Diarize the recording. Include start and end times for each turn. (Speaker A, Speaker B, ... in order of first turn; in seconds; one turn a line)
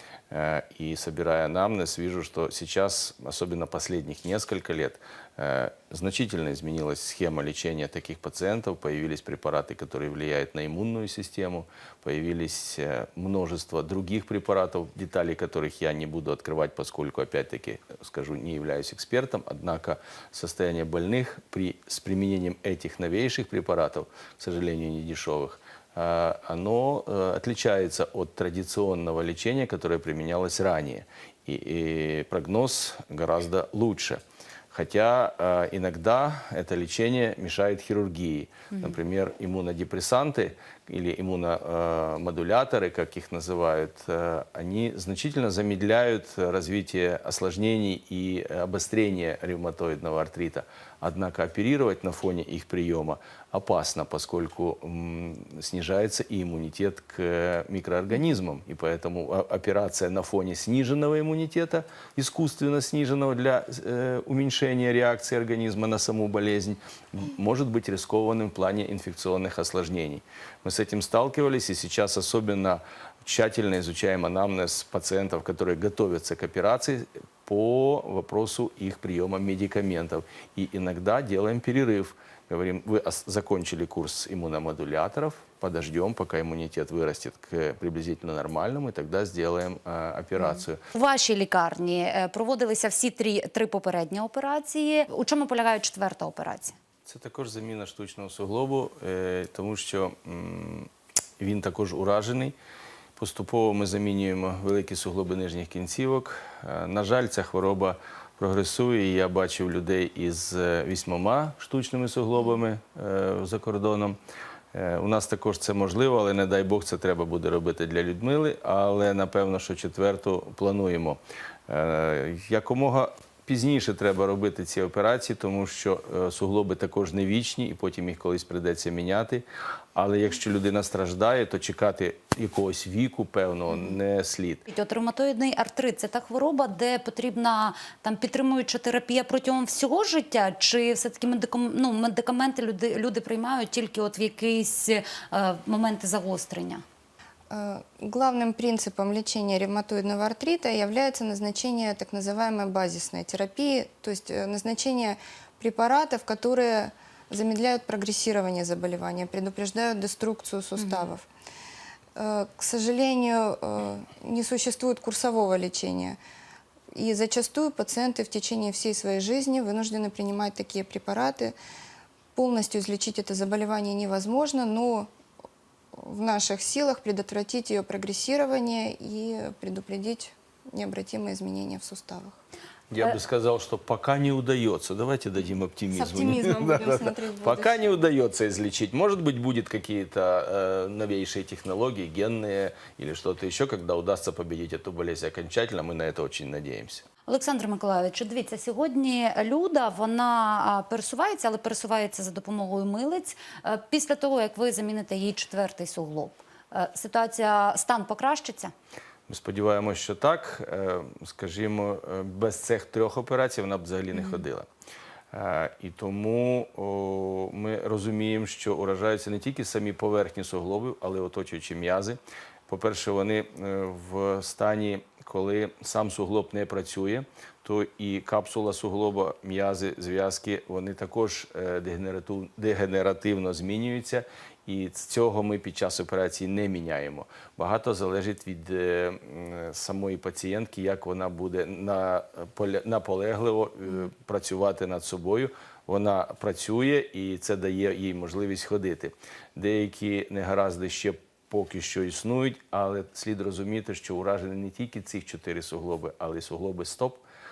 Speaker A: 0.3-90.8
Speaker B: 90.9-96.8
Speaker A: 97.0-102.5
Speaker A: 103.2-114.2
Speaker A: 114.7-134.7
Speaker B: 134.7-146.8
Speaker C: 147.5-161.3
Speaker B: 160.8-161.1
Speaker C: 162.2-166.2
Speaker C: 166.9-171.6
Speaker C: 172.3-175.1
Speaker C: 176.0-182.4
Speaker A: 182.9-197.0
Speaker C: 185.9-188.1
Speaker B: 197.3-208.7
Speaker A: 209.3-214.7
Speaker A: 215.3-257.2